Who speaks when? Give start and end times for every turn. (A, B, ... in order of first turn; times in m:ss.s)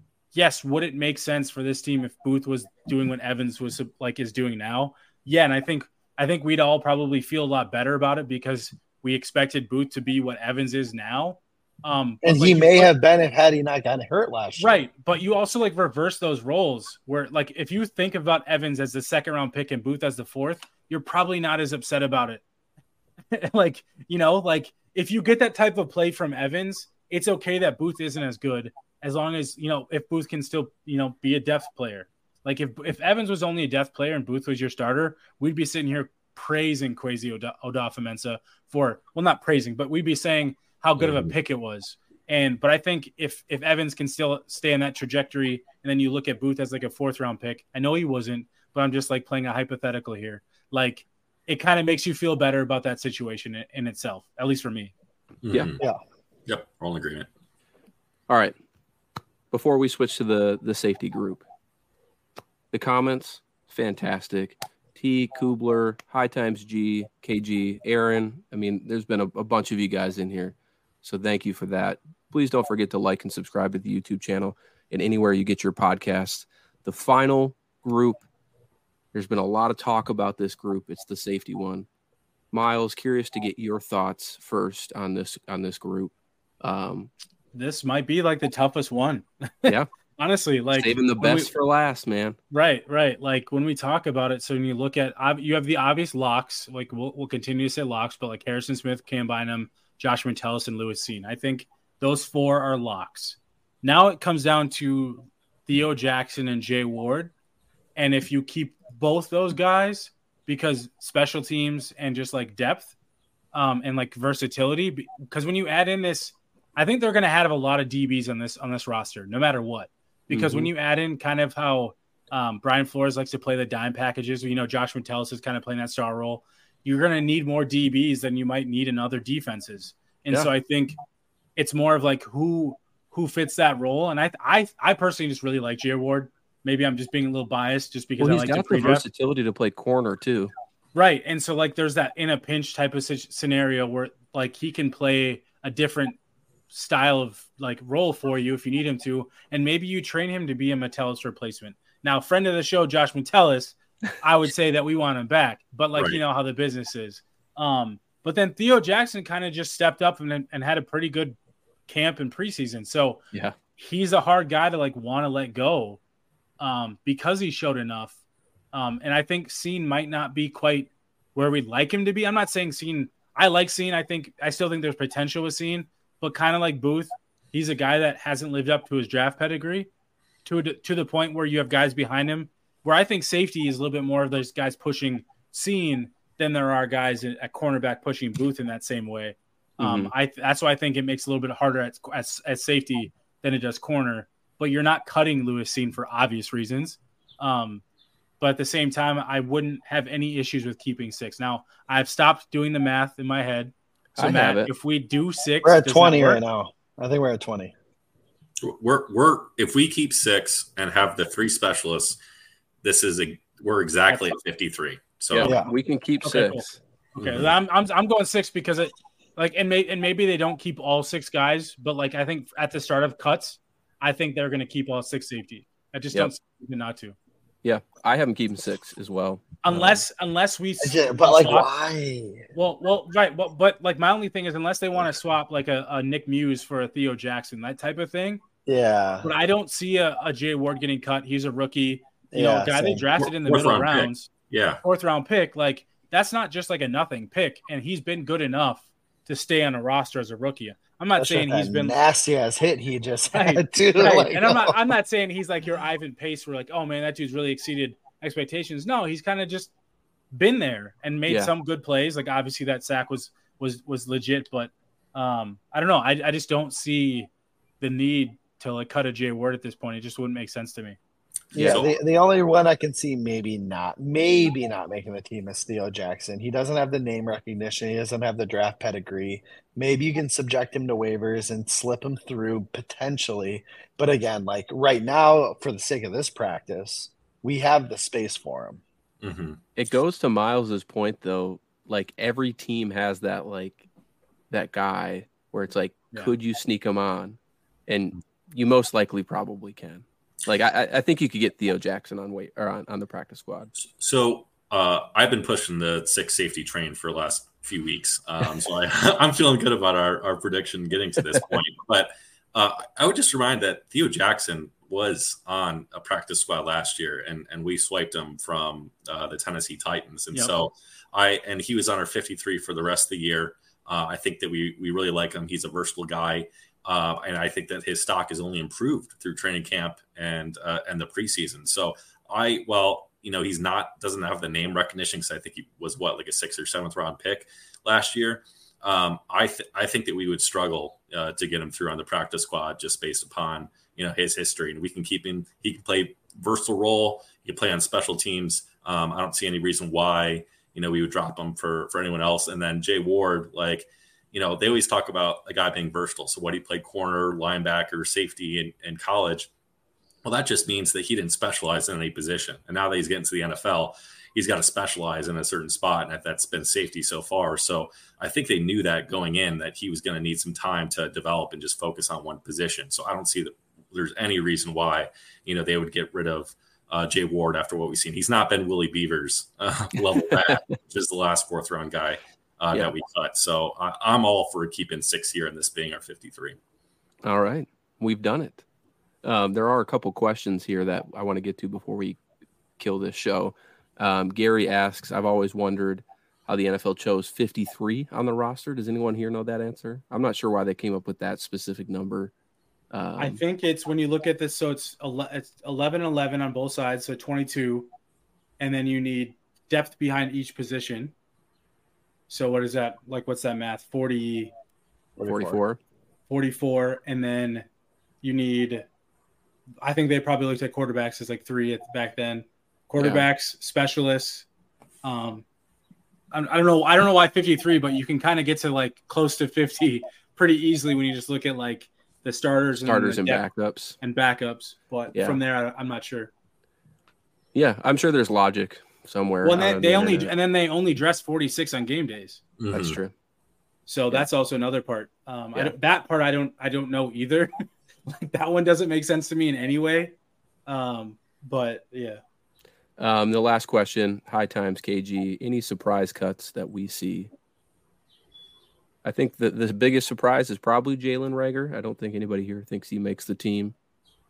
0:00.3-0:12.9 A
0:12.2-0:14.8 B
0:14.6-0:22.4 A
0:23.3-0:54.9 A
0:41.0-0:41.3 C
0:55.4-0:55.8 C
0:56.5-0:57.3 C
0:58.3-0:58.6 D
0:59.5-1:01.5 D
1:02.7-1:18.2 D
1:19.1-1:21.9 D
1:22.5-1:27.1 D
1:27.5-1:31.5 A
1:30.7-1:32.4 D
1:32.5-1:47.3 A
1:48.0-1:52.9 A
1:53.5-2:11.0 A
2:00.3-2:00.7 D
2:11.6-2:19.0 A
2:18.2-2:20.5 D
2:20.9-2:26.2 A
2:26.7-2:43.2 A
2:43.8-2:46.0 A
2:46.6-2:48.2 A
2:48.7-2:59.9 A
3:00.4-3:17.8 A
3:09.8-3:10.1 D
3:18.4-3:26.4 A
3:24.2-3:24.7 D
3:25.6-3:27.7 B
3:28.6-3:32.2 C
3:32.8-3:35.6 C
3:34.1-3:34.3 A
3:35.3-3:36.8 D
3:35.4-3:35.7 B
3:36.2-3:47.2 A
3:37.2-3:37.5 C
3:47.6-3:50.0 D
3:49.6-3:51.7 A
3:50.8-3:52.5 B
3:52.6-3:58.4 A
3:58.7-3:59.3 B
3:59.2-4:04.3 A
4:02.3-4:03.0 B
4:03.2-4:04.8 C
4:04.8-4:12.0 A
4:11.2-4:14.8 B
4:13.3-4:19.7 A
4:20.3-4:27.3 A
4:21.3-4:21.5 D
4:27.8-4:31.0 A
4:31.5-4:32.0 C
4:31.6-4:48.8 B
4:31.6-4:31.8 D
4:49.2-4:49.6 C
4:49.8-4:53.8 D
4:54.5-5:03.7 D
5:03.8-5:59.5 C
6:00.2-6:26.6 C
6:20.3-6:20.6 D
6:27.2-6:28.6 D
6:29.2-6:32.2 D
6:32.8-6:42.3 D
6:42.9-6:43.4 D
6:43.2-6:47.9 A
6:48.6-6:51.1 A
6:52.3-6:54.5 A
6:55.2-6:55.6 B
6:55.2-6:55.8 D
6:56.3-6:57.7 A
6:58.2-6:58.8 A
6:59.8-7:04.5 A
7:03.0-7:03.3 D
7:05.0-7:05.4 A
7:06.3-7:13.5 A
7:12.8-7:14.0 D
7:14.0-7:16.3 A
7:15.1-7:15.4 D
7:17.5-7:20.3 D
7:19.4-7:22.4 A
7:22.6-7:23.0 C
7:22.7-7:23.1 D
7:23.9-7:30.1 A
7:30.7-7:32.2 A
7:33.0-7:37.3 D
7:39.0-7:43.8 D